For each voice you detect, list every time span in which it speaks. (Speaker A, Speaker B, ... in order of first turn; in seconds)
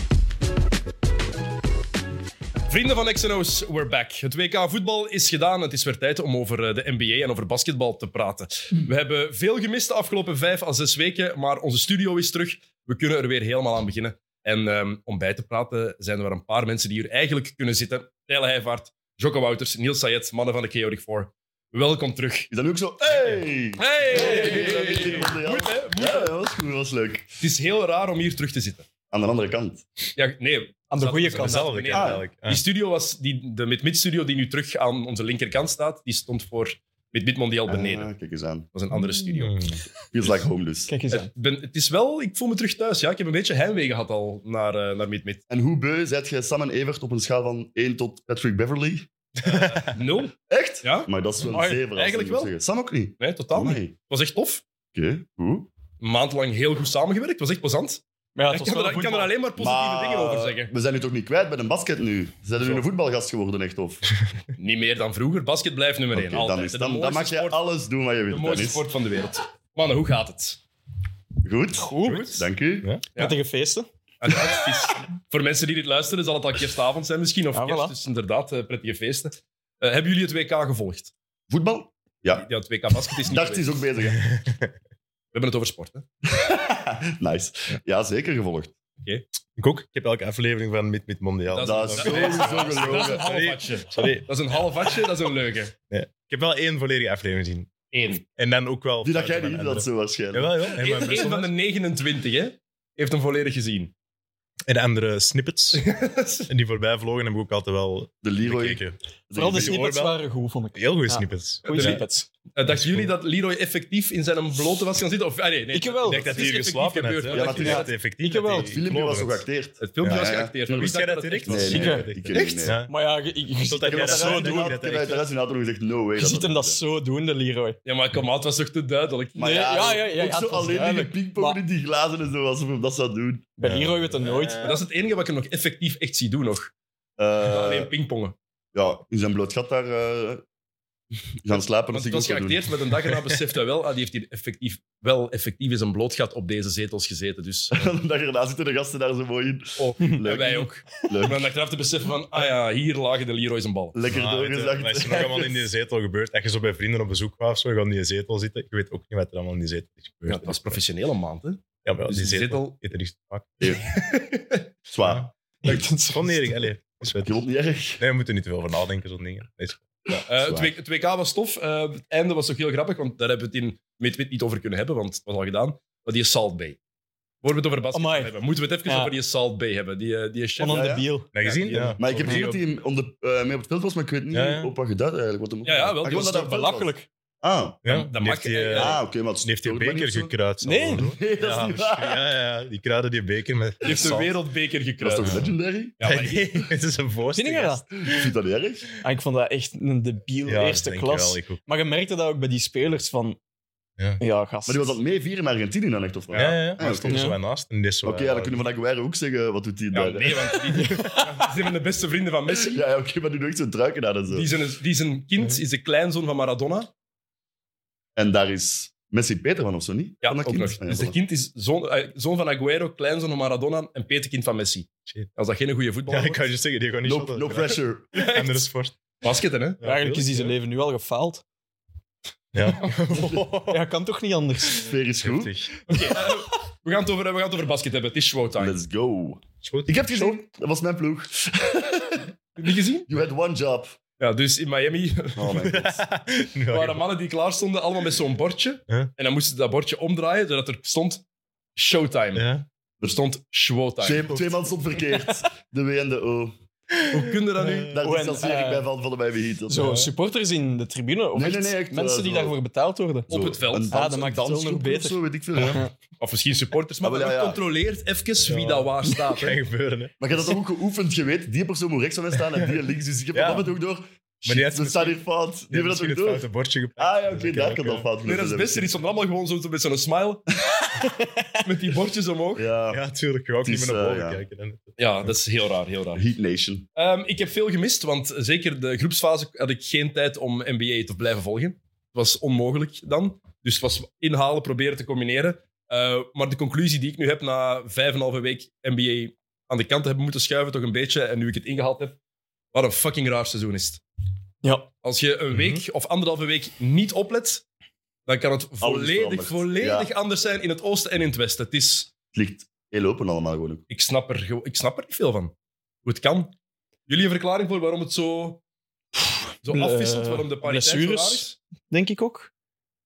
Speaker A: 2.7-22.5, 23.8-26.3, 27.4-28.9, 30.2-38.1, 38.7-39.7, 41.1-45.4, 49.5-52.5, 53.2-54.6, 56.0-60.7, 62.6-62.8, 64.6-67.6, 68.3-70.6, 72.0-72.5, 74.2-81.1, 82.3-83.8, 85.3-86.1, 91.5-95.7, 97.9-98.2, 100.7-103.9, 105.7-106.5, 111.7-112.0, 112.5-117.9, 119.8-122.7, 127.8-129.5, 134.6-136.7, 137.4-138.3, 141.8-147.9, 149.8-154.0, 160.3-162.8, 163.8-164.7, 170.3-176.8, 177.4-182.5, 185.6-186.4, 187.9-189.0, 193.8-196.6, 209.9-212.8, 214.3-216.9, 220.2-226.5, 228.1-228.7, 229.2-229.8, 235.9-238.8, 242.6-243.1, 244.2-245.7, 246.7-251.2, 251.8-252.5, 253.0-254.4, 257.1-257.9, 263.3-263.9, 266.2-269.6, 278.2-280.4, 281.5-282.7, 285.0-286.2, 287.0-302.2, 302.7-304.0, 305.0-307.6, 308.3-312.1, 313.9-316.6, 317.1-318.6, 319.6-321.6
Speaker B: 22.5-27.3, 29.1-29.9, 31.9-32.2, 37.7-38.7, 40.1-40.9, 45.5-53.9, 54.9-55.7, 59.6-64.2, 66.1-68.8, 71.4-72.9, 81.5-82.5, 83.2-84.2, 86.3-88.7, 91.6-93.3, 99.0-101.2, 108.2-109.8, 117.3-118.0, 118.5-122.8, 123.9-126.8, 129.4-133.5, 137.2-137.9, 138.7-140.4, 141.4-142.7, 147.7-151.4, 153.9-155.7, 163.6-163.9, 164.9-165.8, 167.1-168.0, 170.1-170.7, 180.6-181.1, 182.0-187.9, 188.7-190.3, 190.9-192.2, 193.8-194.2, 195.0-195.9, 198.0-198.9, 204.7-207.2, 208.0-210.6, 212.5-214.5, 218.2-221.2, 227.0-228.1, 233.1-233.4, 234.7-235.5, 238.6-242.3, 243.1-244.0, 245.4-246.0, 254.0-256.6, 257.8-260.0, 261.4-262.6, 263.3-265.8, 267.0-267.6, 270.2-276.5, 277.0-279.0, 282.6-283.0, 283.6-284.4, 286.1-286.9, 308.8-310.1, 312.3-313.8
Speaker C: 24.1-24.9, 30.9-31.8, 40.9-41.3, 51.5-51.9, 58.4-59.3, 71.8-72.3, 73.1-73.9, 77.5-77.9, 109.3-112.3, 115.7-116.5, 117.6-118.7, 121.7-122.1, 122.9-124.8, 126.2-127.8, 129.4-131.6, 133.6-134.8, 165.6-166.5, 177.9-178.3, 178.9-179.1, 180.6-181.3, 182.2-182.5, 186.0-187.1, 190.6-191.1, 197.3-197.8, 199.0-203.4, 204.2-205.0, 207.1-207.4, 210.7-211.5, 229.8-231.4, 233.7-234.9, 257.9-258.9, 259.7-263.3, 263.9-265.9, 304.6-304.9, 319.6-322.5
Speaker D: 31.4-32.6, 39.4-39.8, 49.4-49.9, 84.1-84.7, 89.6-94.3, 95.9-97.7, 98.4-101.5, 104.7-105.9, 106.5-110.2, 110.8-112.0, 112.7-113.1, 116.1-119.5, 120.0-122.9, 123.6-125.2, 133.6-134.8, 154.1-160.8, 161.8-163.6, 165.0-167.4, 168.0-170.2, 181.3-182.4, 184.3-184.7, 187.8-194.3, 195.2-198.3, 200.4-201.6, 206.3-208.7, 226.1-229.0, 229.8-230.6, 232.5-233.8, 235.2-236.2, 239.6-240.0, 245.6-247.0, 252.3-252.7, 254.3-254.6, 256.9-258.0, 259.8-260.1, 265.6-265.8, 268.4-270.6, 273.3-273.7, 274.5-278.1, 282.9-285.3, 305.5-305.8